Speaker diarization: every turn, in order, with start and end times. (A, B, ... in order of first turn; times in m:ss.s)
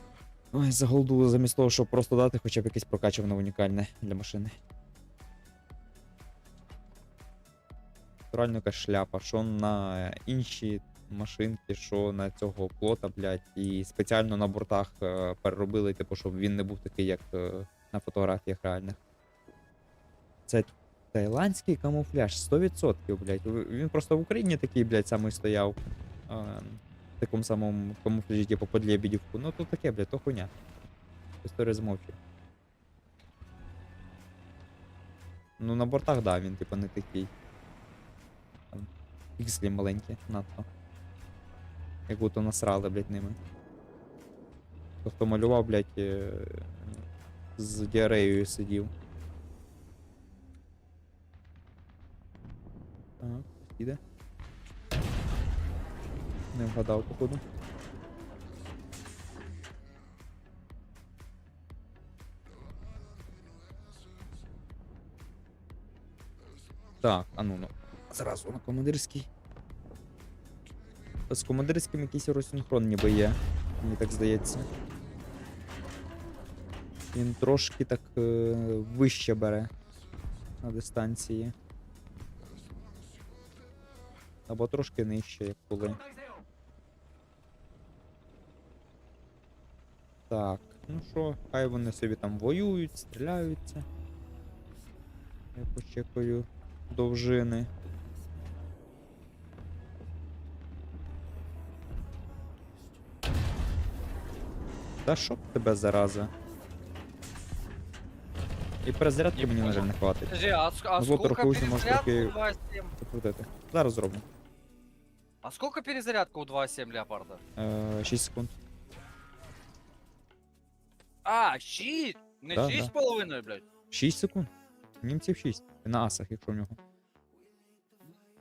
0:00.5-0:04.6 A
0:08.3-0:19.0 A
0:20.5-0:30.5 A
0:31.4-0:32.2 A
0:35.6-0:37.3 A
0:38.7-0:40.7 A
0:42.1-0:43.4 A
0:45.0-0:47.0 A
0:47.6-0:48.9 A
0:53.2-0:54.0 A
0:56.5-0:57.4 A
1:07.0-1:09.3 A
1:11.3-1:14.7 A
1:17.1-1:19.7 A
1:20.6-1:21.5 A
1:24.5-1:26.0 A
1:30.3-1:33.9 A
1:35.5-1:37.7 A
1:45.0-1:46.3 A
1:48.8-1:50.4 A
1:49.3-1:52.9 B
1:51.0-1:52.4 A
1:53.0-1:54.2 A
1:55.4-1:57.4 B
1:57.6-1:58.5 A
2:01.2-2:03.6 B
2:02.5-2:02.9 A
2:03.9-2:04.5 A
2:05.0-2:06.8 A